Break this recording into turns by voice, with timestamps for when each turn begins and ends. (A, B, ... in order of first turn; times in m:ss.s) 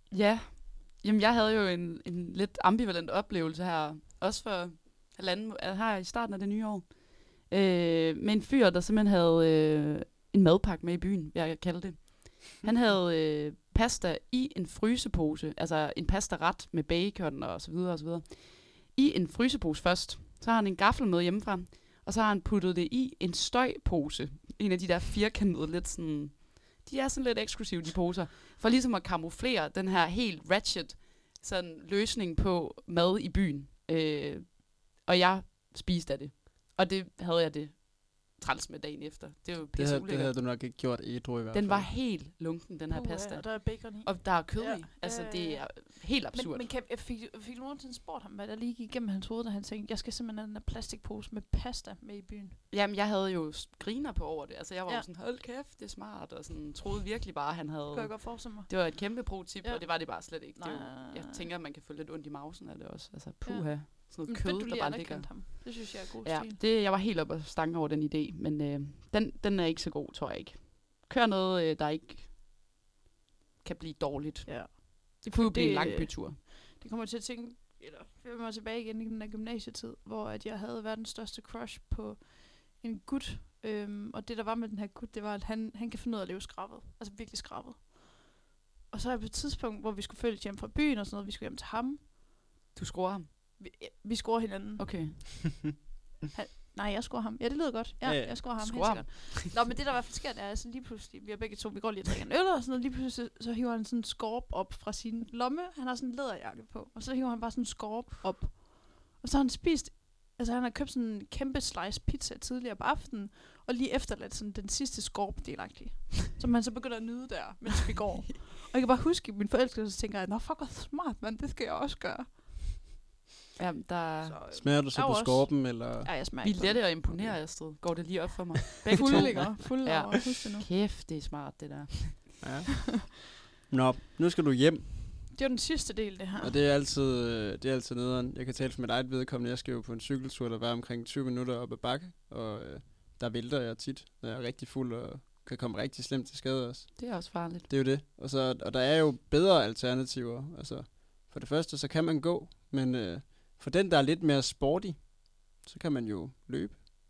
0:00.1-0:40.3 A
0:39.8-0:41.9 B
0:41.5-0:46.7 A
0:42.9-0:52.6 C
0:52.7-1:12.3 A
0:57.9-0:59.1 C
0:59.6-1:01.5 C
1:03.4-1:06.6 C
1:13.6-1:16.4 A
1:14.5-1:28.4 C
1:28.9-1:32.1 C
1:32.8-1:33.3 A
1:33.6-1:35.2 C
1:34.8-1:35.6 A
1:36.3-2:02.4 C
1:38.0-1:38.4 B
1:38.6-1:39.5 A
2:03.6-2:04.4 A
2:04.2-2:07.0 C
2:04.5-2:06.1 B
2:06.4-2:12.3 A
2:08.9-2:10.7 C
2:09.0-2:09.6 B
2:12.4-2:12.8 B
2:13.7-2:15.2 B
2:15.3-2:16.6 C
2:16.4-2:36.8 B
2:27.0-2:27.7 A